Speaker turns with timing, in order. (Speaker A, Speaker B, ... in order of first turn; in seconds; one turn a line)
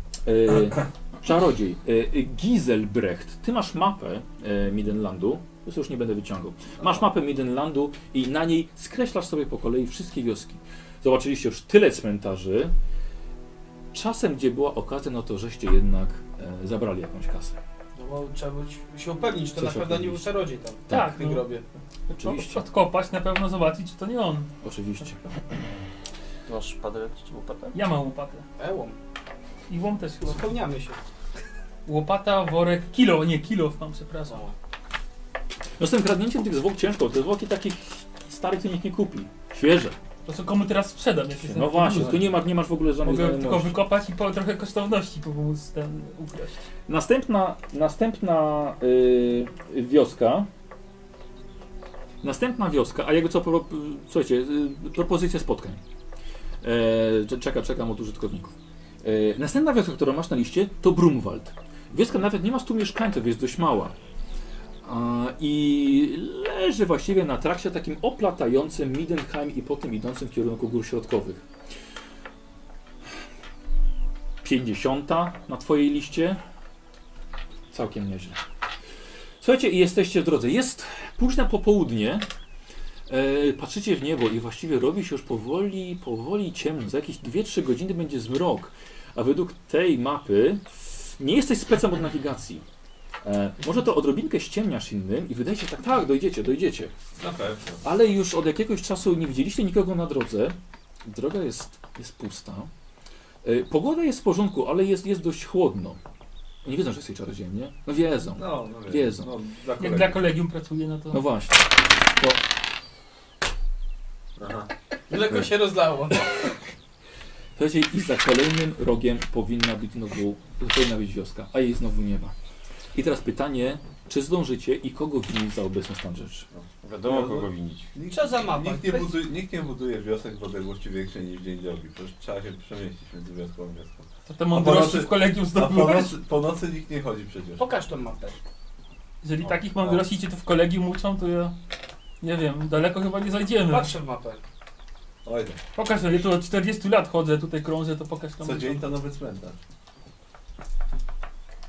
Speaker A: 0.2-12.7
Speaker A: 13.9-17.6
Speaker B: 18.0-21.6
Speaker A: 19.6-20.4
Speaker A: 20.9-21.2
Speaker C: 20.9-21.5
Speaker C: 22.1-24.5
Speaker A: 22.1-22.6
Speaker A: 24.6-25.3
Speaker D: 26.5-27.8
Speaker C: 27.7-28.4
Speaker B: 28.6-29.0
Speaker C: 29.7-30.5
Speaker B: 30.2-31.0
Speaker C: 31.9-34.4
Speaker B: 34.3-34.5
Speaker A: 35.8-40.0
Speaker C: 40.3-42.3
Speaker A: 41.4-43.8
Speaker E: 42.0-42.3
Speaker C: 43.0-46.7
Speaker A: 46.9-50.5
Speaker A: 52.2-55.8
Speaker A: 56.6-64.0
Speaker A: 64.8-71.4
Speaker A: 74.4-76.4
Speaker A: 77.7-78.4
Speaker A: 79.4-82.3
Speaker A: 83.1-92.7
Speaker A: 93.2-96.9
Speaker E: 97.2-97.8
Speaker A: 97.8-102.7
Speaker A: 103.4-106.0
Speaker A: 106.6-109.3
Speaker E: 108.4-110.3
Speaker C: 109.8-111.2
Speaker A: 111.1-112.4
Speaker E: 114.4-114.7
Speaker B: 115.1-116.3
Speaker A: 117.6-122.3
Speaker A: 122.9-126.5
Speaker E: 126.5-137.7
Speaker D: 126.8-127.9
Speaker B: 128.1-129.2
Speaker C: 134.3-136.2
Speaker B: 137.6-138.4
Speaker C: 139.2-141.6
Speaker C: 142.2-143.9
Speaker B: 143.7-144.4
Speaker E: 145.2-145.6
Speaker C: 145.8-148.9
Speaker E: 148.4-149.6